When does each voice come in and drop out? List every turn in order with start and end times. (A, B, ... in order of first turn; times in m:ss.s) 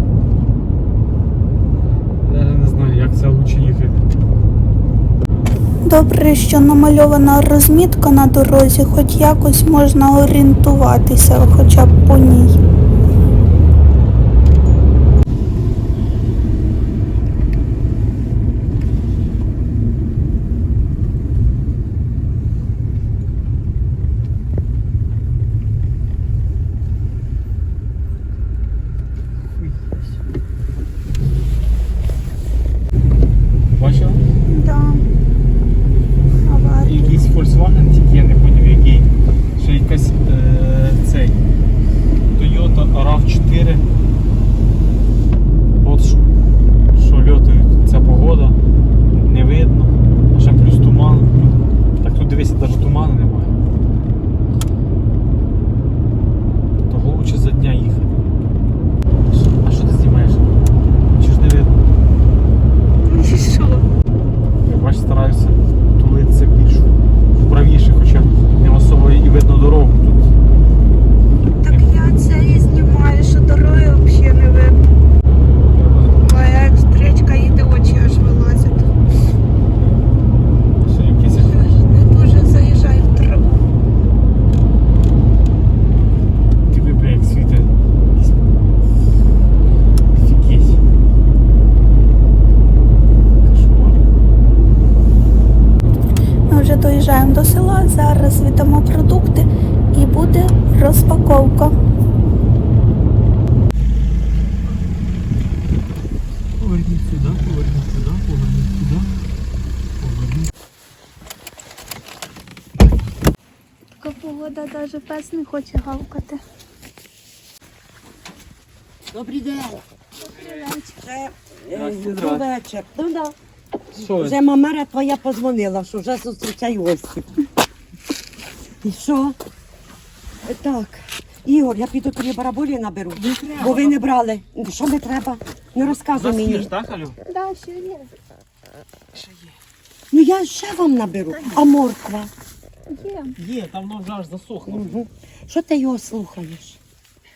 0:02.2-0:04.0 A
0:05.8-0:12.6 B
0:29.5-0:29.9 A
0:33.7-0:34.2 A
0:34.5-0:35.0 B
0:36.4-0:37.2 B
0:36.8-0:41.4 A
0:42.4-0:43.8 A
0:45.8-0:46.2 A
0:46.9-0:48.6 A
0:49.1-0:53.6 A
0:56.9-0:58.2 A
0:59.3-1:00.5 A
1:01.1-1:01.8 A
1:03.0-1:03.8 B
1:04.6-1:10.3 A
1:11.6-1:14.8 B
1:15.7-1:16.2 A
1:16.2-1:18.9 B
1:20.8-1:21.6 A
1:21.6-1:23.6 B
1:26.7-1:28.4 A
1:30.1-1:30.8 A
1:33.4-1:34.0 A
1:36.5-1:41.7 B
1:46.6-1:49.1 A
1:50.0-1:50.5 A
1:54.0-1:56.4 B
1:59.1-1:59.8 C
2:00.2-2:01.0 B
2:01.0-2:03.4 C
2:01.7-2:02.4 A
2:03.9-2:04.4 A
2:04.0-2:07.3 C
2:08.8-2:09.4 C
2:10.4-2:16.7 C
2:13.1-2:14.0 A
2:15.8-2:17.2 A
2:17.2-2:18.1 B
2:19.1-2:19.5 A
2:20.1-2:22.3 C
2:22.9-2:23.4 B
2:23.4-2:25.0 A
2:24.7-2:26.8 C